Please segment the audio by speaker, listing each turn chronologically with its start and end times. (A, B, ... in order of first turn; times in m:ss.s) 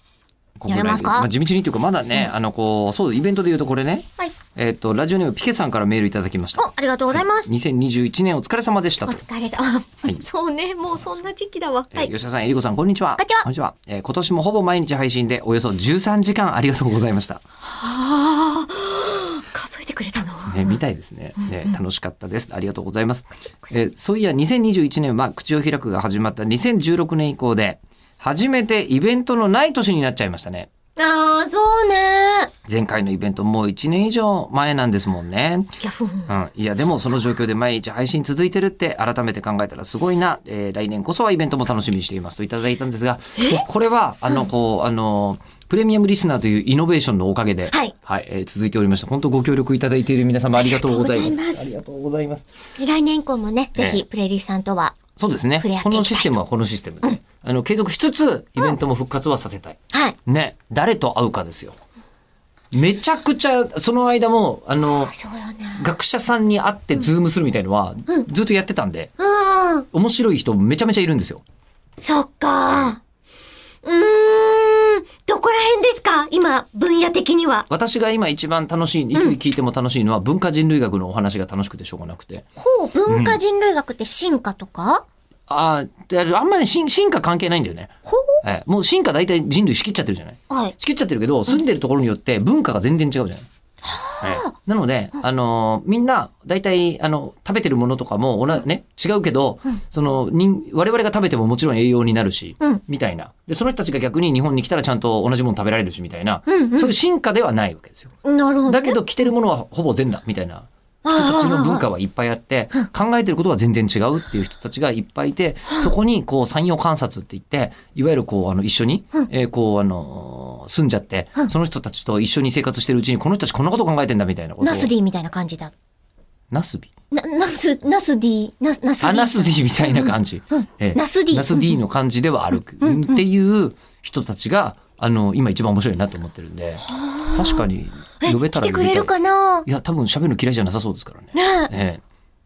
0:00.6-0:09.2 A
0:00.7-0:01.3 B
0:06.6-0:07.5 B
0:09.0-0:12.1 B
0:11.9-0:17.4 A
0:13.2-0:13.4 B
0:17.7-0:20.8 B
0:20.5-0:30.7 A
0:21.4-0:21.8 B
0:23.4-0:23.8 B
0:31.0-0:32.5 B
0:32.6-0:35.7 A
0:35.8-0:36.3 B
0:36.3-0:52.4 A
0:43.4-0:43.6 B
0:50.6-0:51.7 B
0:52.8-0:55.0 B
0:53.8-0:54.0 A
0:55.2-1:01.8 A
0:55.6-0:56.3 B
0:59.9-1:00.2 B
1:02.7-1:05.1 A
1:04.8-1:05.8 B
1:05.8-1:09.1 A
1:09.2-1:09.9 B
1:09.9-1:11.4 A
1:12.0-1:13.0 B
1:13.8-1:17.7 B
1:17.7-1:22.4 A
1:22.6-1:25.0 B
1:23.1-1:23.4 A
1:25.5-1:33.4 A
1:28.0-1:28.4 B
1:30.5-1:30.8 B
1:33.8-1:34.5 B
1:34.2-1:48.1 A
1:46.5-1:46.9 B
1:48.2-1:49.0 B
1:48.7-2:04.9 A
1:51.0-1:51.8 B
2:04.6-2:05.7 B
2:06.5-2:06.9 A
2:07.1-2:11.8 B
2:09.0-2:19.1 A
2:12.8-2:13.2 B
2:16.8-2:17.6 B
2:18.2-2:19.6 B
2:19.6-2:22.0 A
2:21.3-2:21.7 B